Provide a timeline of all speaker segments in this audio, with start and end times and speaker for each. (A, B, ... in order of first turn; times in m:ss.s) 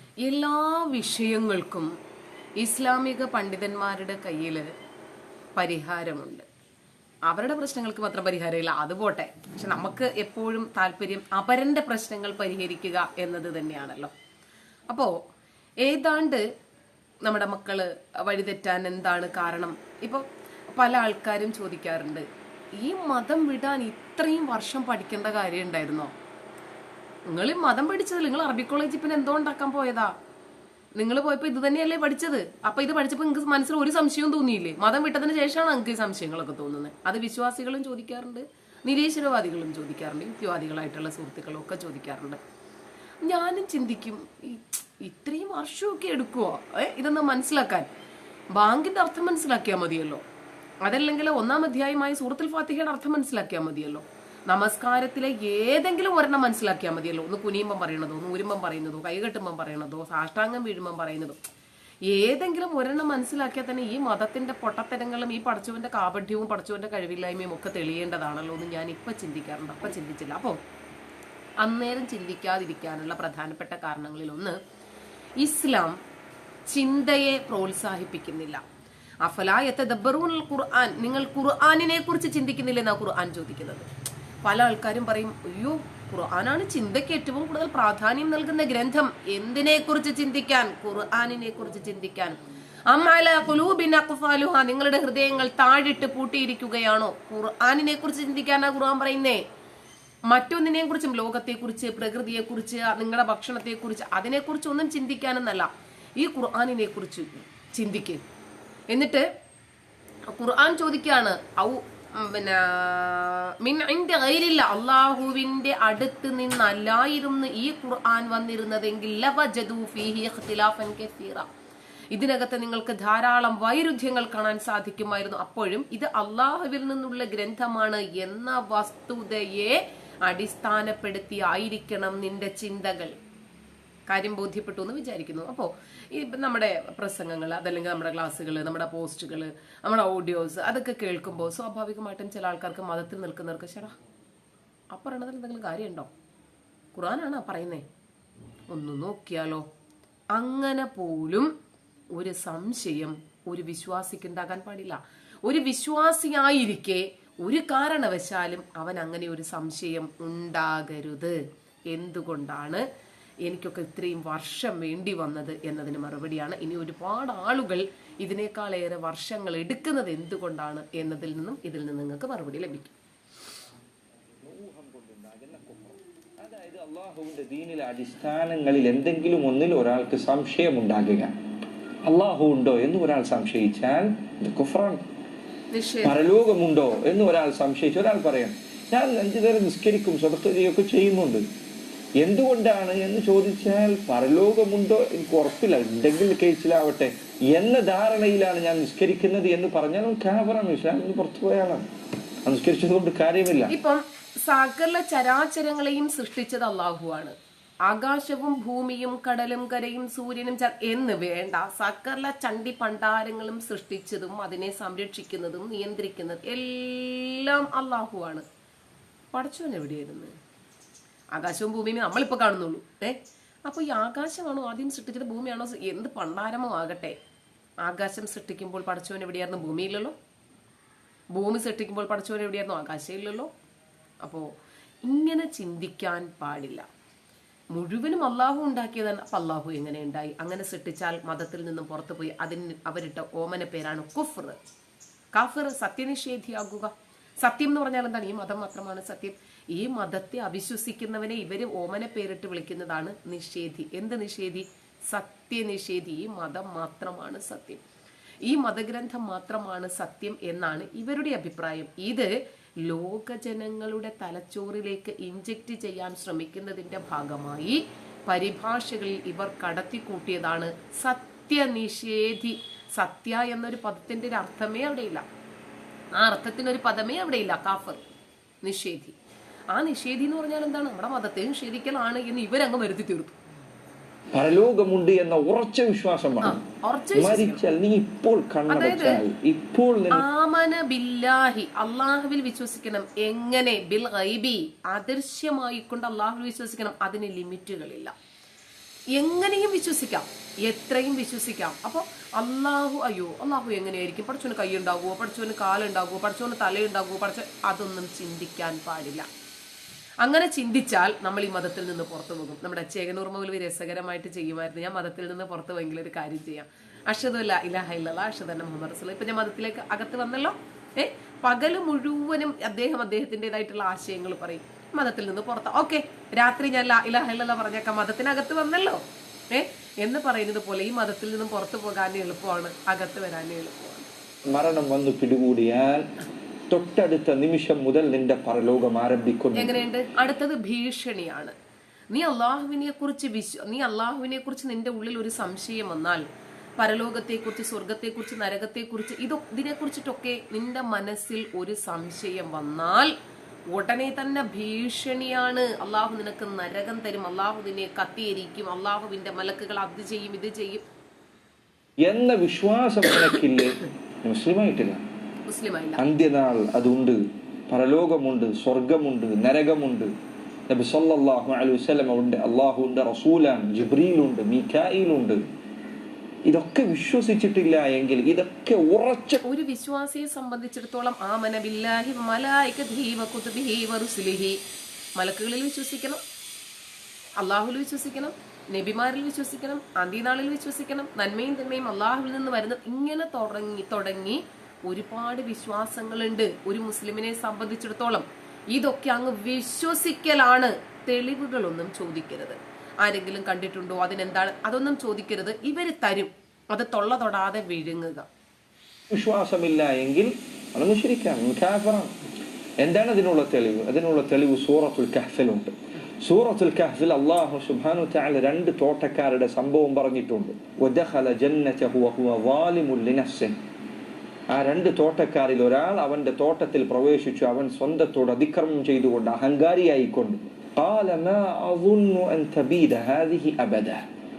0:00.2-0:01.9 A
0:02.6-0:04.7 A
0:05.6-0:06.5 A
0:07.3-0:14.1 A
0:15.8-0:16.4 A
0:17.2-0:22.2 A
0:22.8-0:26.1 A
0:27.3-0:30.1 A
0:31.0-0:42.4 A
0:43.2-0:47.9 A
0:48.6-0:50.2 A
0:50.8-1:01.4 A
1:02.1-1:10.6 A
1:11.6-1:14.6 A
1:15.4-1:16.0 A
1:16.7-1:18.6 A
1:19.2-1:23.9 A
1:24.4-1:39.4 A
1:40.3-1:48.2 A
1:48.9-1:49.2 A
1:50.4-2:01.5 A
2:02.1-2:13.1 A
2:14.1-2:24.0 A
2:24.9-2:26.1 A
2:27.0-2:27.8 A
2:28.7-2:29.7 A
2:30.3-2:31.5 A
2:32.2-2:41.4 A
2:41.9-2:42.8 A
2:43.5-2:53.0 A
2:54.4-3:01.3 B
3:02.1-3:05.0 B
3:05.7-3:06.2 A
3:06.0-3:11.4 B
3:12.2-3:21.8 B
3:22.4-3:23.7 B
3:23.7-3:27.4 A
3:27.9-3:38.4 A
3:39.3-3:40.3 A
3:41.3-3:47.2 A
3:47.8-3:50.2 A
3:51.3-3:53.5 A
3:55.1-3:56.8 A
3:57.7-4:04.6 A
4:05.4-4:17.8 A
4:18.5-4:35.2 A
4:36.1-4:38.0 A
4:38.6-4:39.2 A
4:39.7-4:43.4 A
4:44.3-4:46.6 B
4:46.4-4:47.6 A
4:47.2-4:50.2 B
4:48.7-4:49.2 A
4:50.1-4:58.1 A
4:59.2-5:09.3 A
5:10.2-5:29.0 A
5:29.5-5:34.1 A
5:34.5-5:36.1 B
5:36.7-5:39.8 B
5:39.6-5:41.5 A
5:42.1-5:46.2 A
5:46.8-5:53.1 A
5:53.7-6:00.8 A
6:02.0-6:05.0 B
6:05.5-6:06.0 A
6:06.0-6:10.1 B
6:10.7-6:15.4 B
6:16.5-6:19.4 B
6:19.5-6:24.6 A
6:25.2-6:26.2 A
6:27.4-6:48.3 A
6:49.1-6:52.1 B
6:52.8-7:03.6 B
7:04.5-7:14.0 B